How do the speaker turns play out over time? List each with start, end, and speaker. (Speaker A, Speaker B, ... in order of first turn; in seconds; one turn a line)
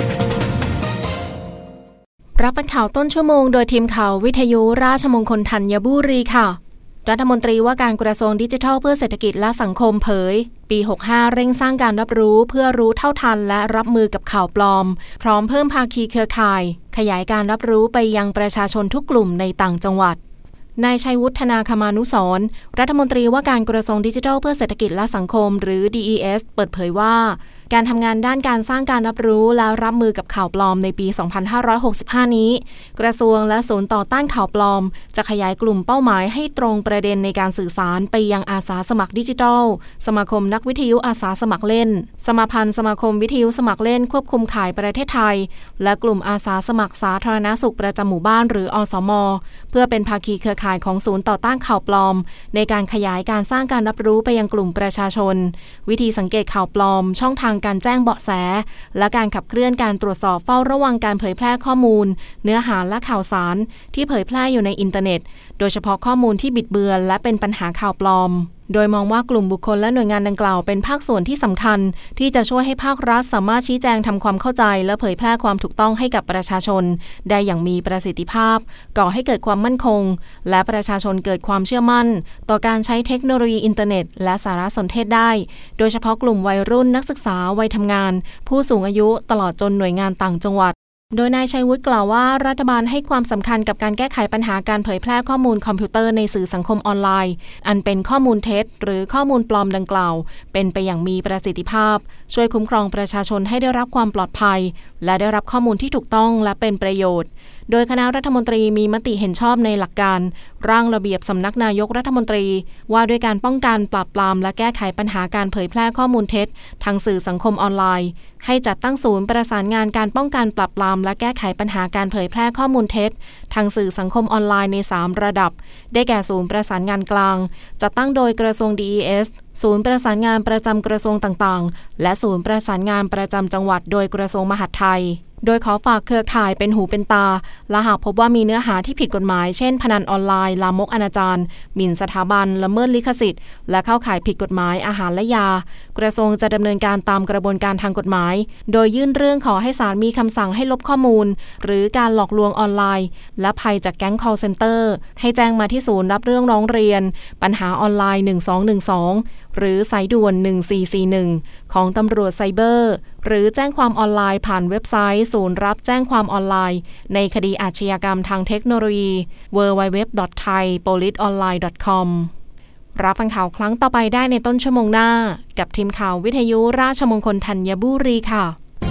Speaker A: 2.4-20.2
Speaker A: 20.8-172.3
Speaker A: 173.0-178.6